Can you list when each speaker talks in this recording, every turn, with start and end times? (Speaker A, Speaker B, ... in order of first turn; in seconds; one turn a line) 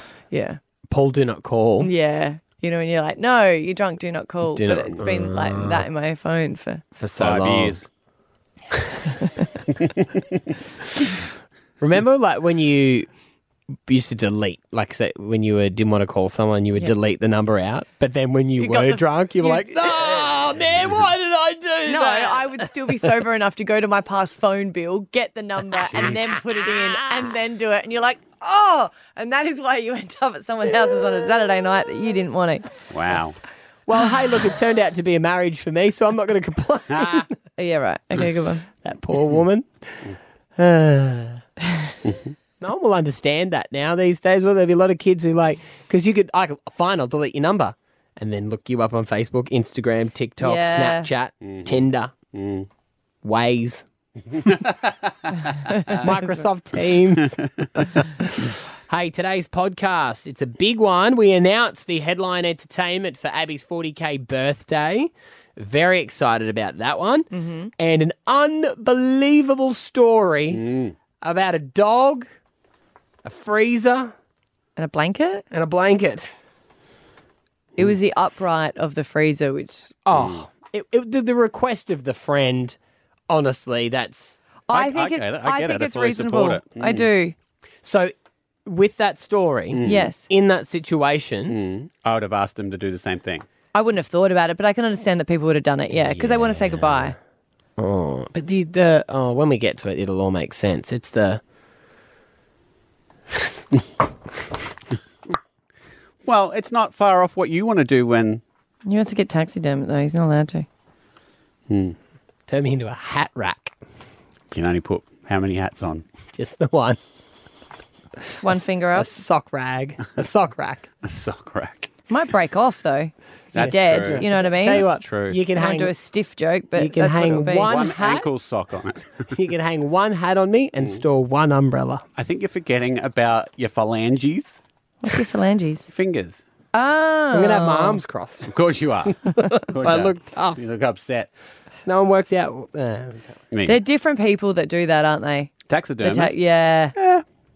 Speaker A: 0.3-0.6
Speaker B: 0.9-1.9
Speaker A: 1.8-6.8
Speaker B: 4.5-5.9
Speaker B: 7.0-7.8
Speaker C: 7.2-7.9
Speaker B: 11.8-13.1
Speaker B: 13.9-22.6
Speaker A: 18.6-20.4
Speaker A: 21.9-32.6
Speaker C: 25.8-26.3
Speaker C: 32.9-33.4
Speaker B: 33.9-37.3
Speaker C: 36.9-37.3
Speaker A: 37.6-38.7
Speaker B: 38.8-41.4
Speaker B: 42.6-52.1
Speaker A: 50.4-51.1
Speaker C: 51.4-51.8
Speaker C: 52.3-52.7
Speaker B: 53.2-53.9
Speaker C: 54.4-55.3
Speaker A: 55.7-56.3
Speaker B: 55.7-70.7
Speaker A: 67.3-67.7
Speaker C: 70.5-71.0
Speaker B: 71.2-72.3
Speaker B: 73.2-74.1
Speaker A: 74.8-75.5
Speaker B: 75.5-76.3
Speaker A: 77.8-80.0
Speaker B: 80.1-82.8
Speaker C: 80.1-80.5
Speaker B: 83.3-84.4
Speaker A: 84.7-87.3
Speaker C: 84.7-87.1
Speaker B: 87.8-88.1
Speaker B: 88.7-91.6
Speaker A: 89.8-90.2
Speaker C: 91.5-93.5
Speaker A: 93.7-97.2
Speaker B: 96.0-97.2
Speaker B: 97.8-101.4
Speaker C: 106.2-108.4
Speaker A: 108.9-110.7
Speaker C: 111.7-112.0
Speaker B: 112.5-113.8
Speaker C: 114.5-116.0
Speaker B: 116.3-117.0
Speaker A: 118.4-119.1
Speaker B: 118.5-120.9
Speaker C: 121.0-121.9
Speaker A: 122.1-124.9
Speaker C: 123.5-125.4
Speaker B: 123.6-125.9
Speaker A: 125.5-127.7
Speaker B: 126.8-128.3
Speaker C: 127.7-129.3
Speaker B: 129.3-132.0
Speaker C: 130.8-131.0
Speaker C: 132.2-134.6
Speaker A: 135.0-135.9
Speaker C: 135.9-136.4
Speaker A: 136.7-138.0
Speaker B: 137.3-138.5
Speaker C: 138.5-141.3
Speaker B: 139.3-140.6
Speaker B: 141.8-143.4
Speaker C: 143.5-143.8
Speaker A: 143.7-145.5
Speaker C: 145.7-147.2
Speaker A: 146.0-147.0